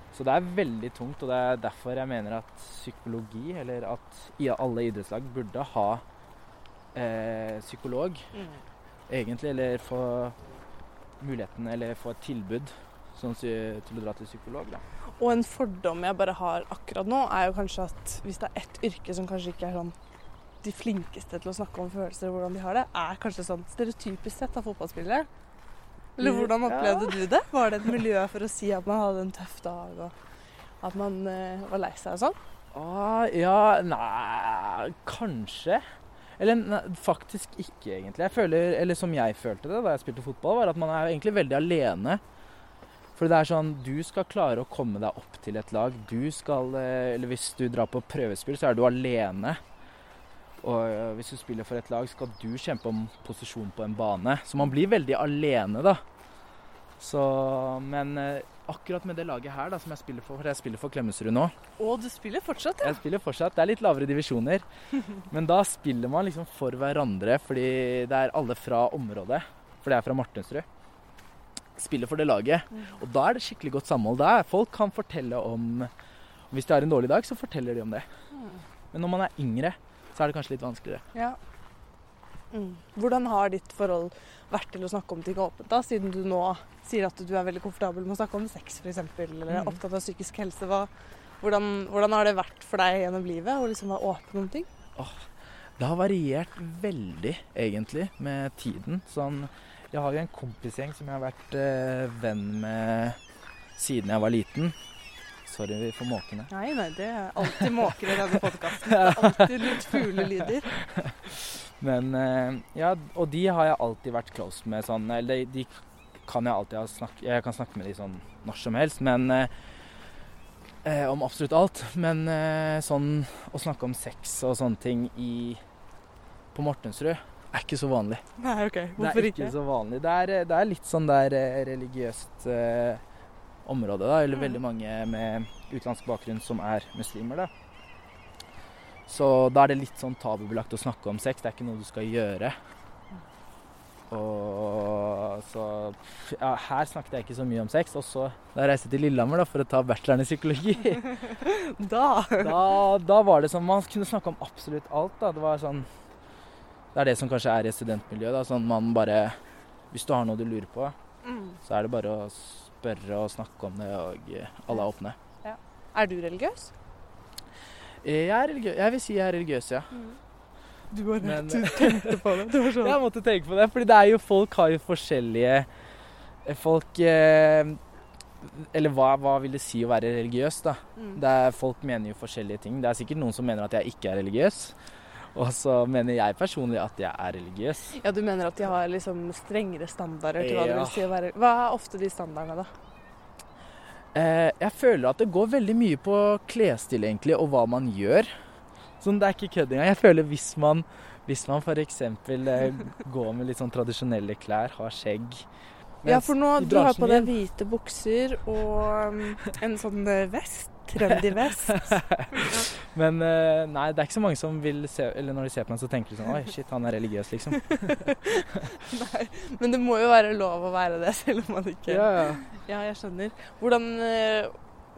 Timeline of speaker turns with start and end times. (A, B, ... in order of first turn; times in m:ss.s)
0:00.1-0:06.0 A
0:07.0-0:08.3 A
0:08.3-0:08.6 B
0:09.1-0:10.4 A
0:11.2-0:14.8 A
0:15.2-0:20.0 B
0:20.6-0:25.3 B
0:26.2-0:30.1 B
0:26.2-0:27.2 A
0:30.8-0:32.4 B
0:32.7-0:35.8 A
0:36.4-0:42.2 A
0:43.2-0:49.6 A
0:50.6-0:56.0 A
0:57.0-1:01.5 A
1:01.8-1:03.0 B
1:02.8-1:04.6 A
1:05.3-1:10.7 A
1:11.8-1:15.9 A
1:16.5-1:18.1 A
1:18.3-1:18.6 B
1:18.9-1:21.0 A
1:22.5-1:30.9 B
1:29.5-1:29.8 A
1:31.4-1:34.7 B
1:35.0-1:43.2 A
1:43.8-1:44.8 A
1:45.4-1:46.5 A
1:46.5-1:50.7 B
1:48.9-1:59.5 A
2:00.8-2:05.6 A
2:06.5-2:08.2 A
2:08.4-2:09.6 B
2:09.0-2:13.0 A
2:13.6-2:17.5 A
2:19.1-2:22.6 A
2:24.1-2:31.1 A
2:31.2-2:32.6 B
2:32.4-2:35.9 A
2:36.9-2:39.4 A
2:39.9-2:41.0 A
2:41.2-2:41.6 B
2:41.6-2:45.2 A
2:45.4-2:46.7 B
2:48.0-2:49.9 A
2:50.9-2:53.0 B
2:51.2-2:52.2 A
2:52.8-2:55.7 A
2:56.4-2:57.8 A
2:58.4-3:04.8 A
3:05.3-3:08.0 A
3:08.0-3:12.7 B
3:10.4-3:11.1 A
3:14.1-3:18.3 A
3:19.0-3:25.5 A
3:26.0-3:27.3 A
3:26.1-3:32.7 B
3:31.1-3:37.9 A
3:37.6-3:44.5 B
3:41.9-3:42.4 A